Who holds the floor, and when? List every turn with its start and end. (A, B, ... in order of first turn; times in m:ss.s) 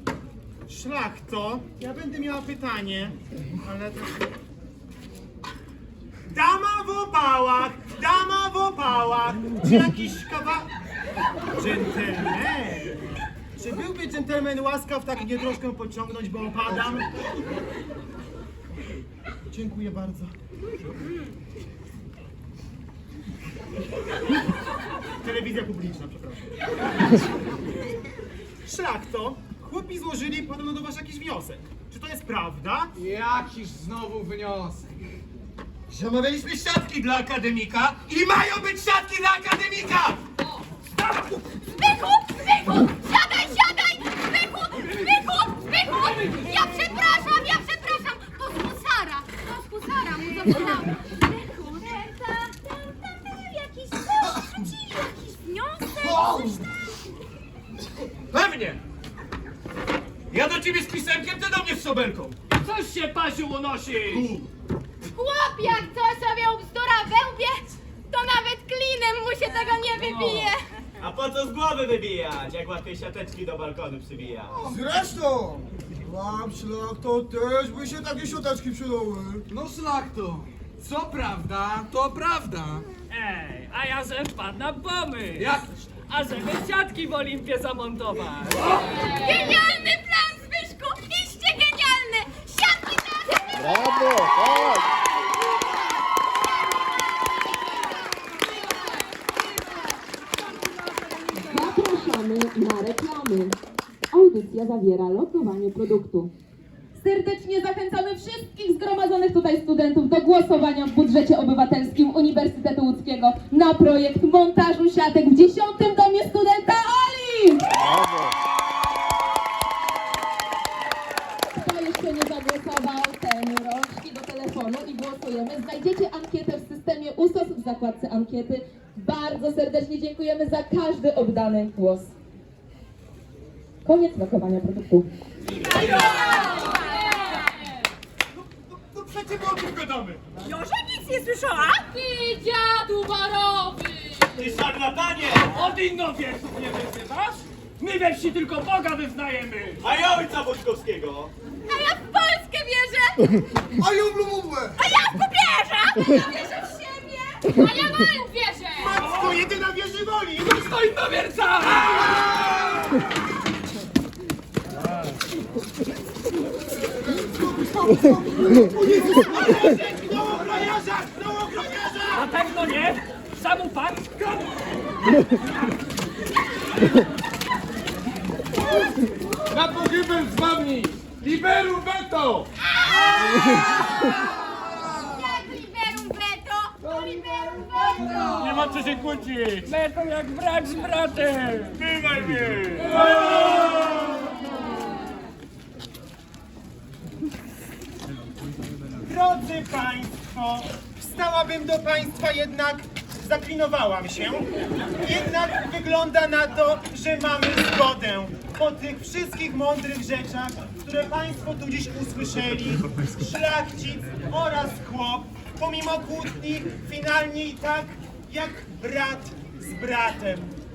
0:00.7-0:04.2 A
0:06.3-0:10.7 A
0:11.5-0:13.0 A
0:13.6-0:17.1 A
0:19.5-0:20.3 A
0:25.2-0:26.6 A
0:28.6-0:32.9 A
0:33.0-0:35.0 B
0:35.9-0:40.2 C
0:41.5-0:56.5 D
0:56.0-0:56.6 E
0:58.3-0:58.8 C
1:00.3-1:02.4 C
1:02.6-1:04.3 F
1:04.1-1:04.4 C
1:05.0-1:10.6 D
1:10.0-1:10.4 F
1:11.0-1:14.5 G
1:14.5-1:19.4 E
1:19.5-1:22.8 B
1:23.1-1:28.9 F
1:25.4-1:25.6 B
1:28.9-1:34.9 D
1:29.1-1:29.5 H
1:41.4-1:43.6 I
1:44.1-1:46.3 I
1:47.0-1:57.7 I
2:01.5-2:12.1 I
2:13.8-2:15.1 I
2:16.0-2:16.9 D
2:17.0-2:17.8 H
2:18.7-2:20.2 C
2:20.4-2:21.8 D
2:21.9-2:24.4 H
2:24.4-2:25.5 G
2:25.4-2:29.9 F
2:29.8-2:31.3 G
2:31.7-2:33.2 D
2:33.8-2:34.8 E
2:34.8-2:37.1 D
2:37.5-2:39.0 H
2:38.8-2:40.7 A
2:40.4-2:42.8 B
2:47.1-2:49.3 E
2:48.7-2:52.3 A
2:52.1-2:54.5 F
2:59.5-3:02.5 C
3:03.2-3:08.0 D
3:07.0-3:08.6 B
3:08.6-3:09.2 A
3:09.6-3:11.9 F
3:12.2-3:12.7 C
3:12.8-3:13.3 F
3:19.0-3:24.5 A
3:25.0-3:40.5 A